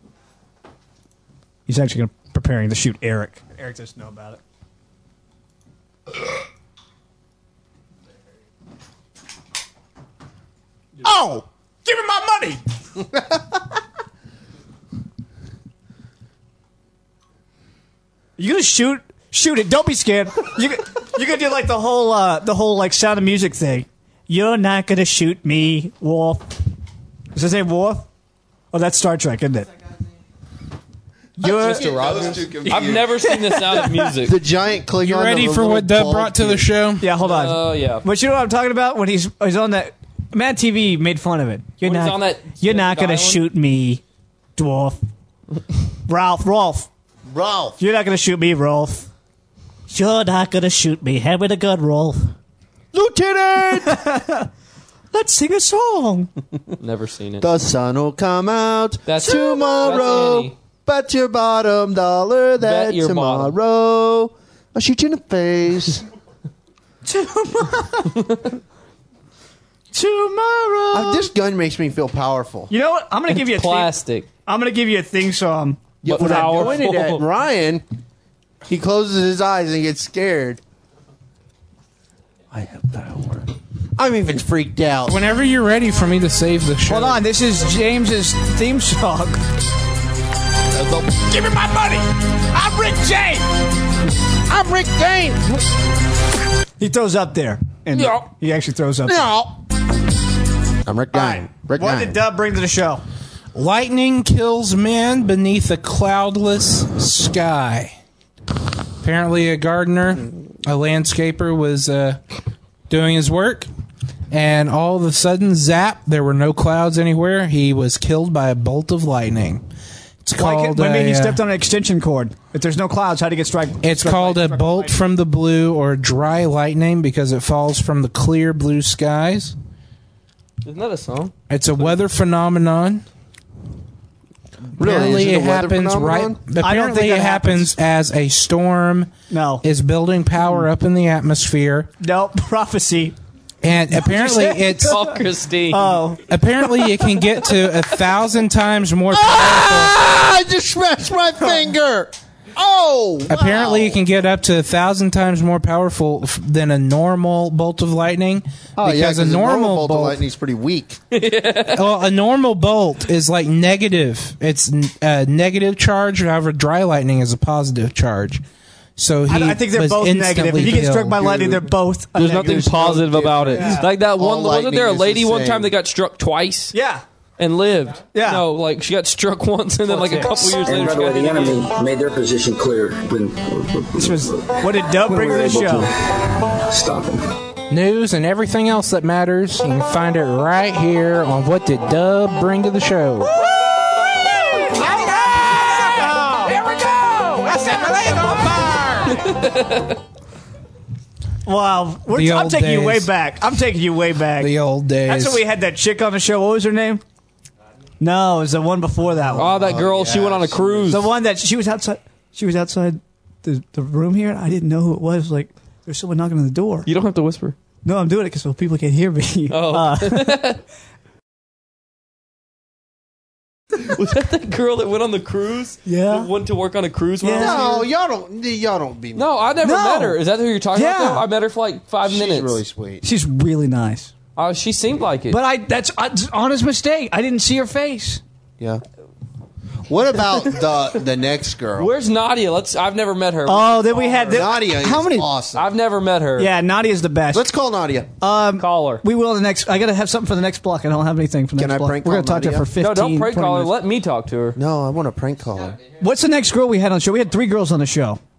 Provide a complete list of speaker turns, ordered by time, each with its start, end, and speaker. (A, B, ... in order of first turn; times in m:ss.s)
0:01.7-0:04.4 A
0:11.0-0:12.6 A
0:18.4-0:26.5 A
0:27.3-0:28.1 A
0:28.7-0:29.7 A
0:31.4-0:34.1 A
0:31.4-0:33.2 B
0:31.4-0:34.4 C
0:34.2-0:36.7 B
0:35.0-0:37.1 D
0:37.0-0:44.0 A
0:37.2-0:38.0 C
0:41.8-0:43.4 C
0:44.6-0:45.0 A
0:46.1-0:46.9 A
0:47.3-0:47.8 B
0:47.8-0:49.1 A
0:49.9-0:52.3 A
0:52.9-0:54.0 B
0:53.8-0:54.5 A
0:55.1-0:56.3 A
0:56.8-0:57.5 C
0:57.4-1:06.0 B
0:59.1-1:00.5 C
1:02.6-1:03.5 C
1:07.0-1:08.4 A
1:09.9-1:11.3 A
1:10.9-1:12.7 B
1:12.7-1:13.9 A
1:13.3-1:14.3 C
1:14.4-1:16.8 A
1:16.0-1:17.8 B
1:16.0-1:17.2 C
1:18.7-1:20.6 B
1:22.5-1:25.2 B
1:25.1-1:27.2 D
1:26.9-1:29.4 A
1:30.7-1:31.1 C
1:31.2-1:33.4 A
1:34.4-1:35.6 B
1:36.8-1:39.3 A
1:38.0-1:38.2 C
1:39.0-1:39.6 B
1:40.8-1:42.2 B
1:41.1-1:43.0 A
1:43.5-1:48.0 D
1:49.0-1:52.2 D
1:52.9-1:53.7 D
1:54.3-1:59.6 D
2:00.2-2:01.4 D
2:00.4-2:05.0 A
2:03.8-2:09.5 D
2:10.6-2:11.3 C
2:11.5-2:13.0 D
2:14.8-2:21.9 D
2:14.8-2:16.4 B
2:14.8-2:15.1 A
2:16.6-2:17.7 A
2:19.3-2:19.6 A
2:22.0-2:23.2 A
2:23.6-2:25.0 D
2:23.9-2:25.1 A
2:24.9-2:26.0 C
2:25.7-2:26.2 A
2:26.3-2:30.0 D
2:29.1-2:34.0 B
2:33.3-2:40.2 D
2:38.8-2:41.0 B
2:41.1-2:41.8 C
2:41.7-2:48.4 D
2:49.0-2:51.5 D
2:49.3-2:53.9 A
2:52.2-2:56.7 C
2:52.4-2:55.7 B
2:56.7-2:57.0 A
2:57.4-3:01.6 C
2:58.1-2:58.4 A
2:59.9-3:00.6 A
3:00.6-3:07.3 E
3:03.9-3:05.9 A
3:07.7-3:13.4 D
3:13.3-3:16.6 A
3:14.7-3:19.2 D
3:17.6-3:18.9 A
3:19.1-3:20.0 C
3:21.4-3:24.5 A
3:22.1-3:23.1 D
3:24.4-3:25.4 D
3:25.0-3:27.0 A
3:28.0-3:29.6 A
3:29.3-3:31.1 B
3:29.4-3:31.1 C
3:30.9-3:36.9 A
3:36.8-3:37.6 C
3:37.8-3:40.4 A
3:39.5-3:40.6 C
3:43.8-3:47.8 C
3:45.8-3:46.3 A
3:47.2-3:47.8 A
3:47.4-3:49.4 B
3:49.1-3:52.6 C
3:49.6-3:50.2 A
3:50.7-3:51.2 A
3:52.0-3:53.0 B
3:53.0-3:54.1 A
3:54.4-3:55.4 C
3:55.3-3:58.2 A
3:59.9-4:01.9 B
4:01.8-4:04.5 C
4:03.5-4:05.3 A
4:04.3-4:05.7 B
4:05.5-4:06.5 C
4:06.4-4:07.4 A
4:07.3-4:08.1 B
4:08.2-4:13.7 A
4:08.6-4:09.0 C
4:11.6-4:12.7 B
4:12.8-4:14.6 C
4:14.6-4:15.8 B
4:16.0-4:18.2 A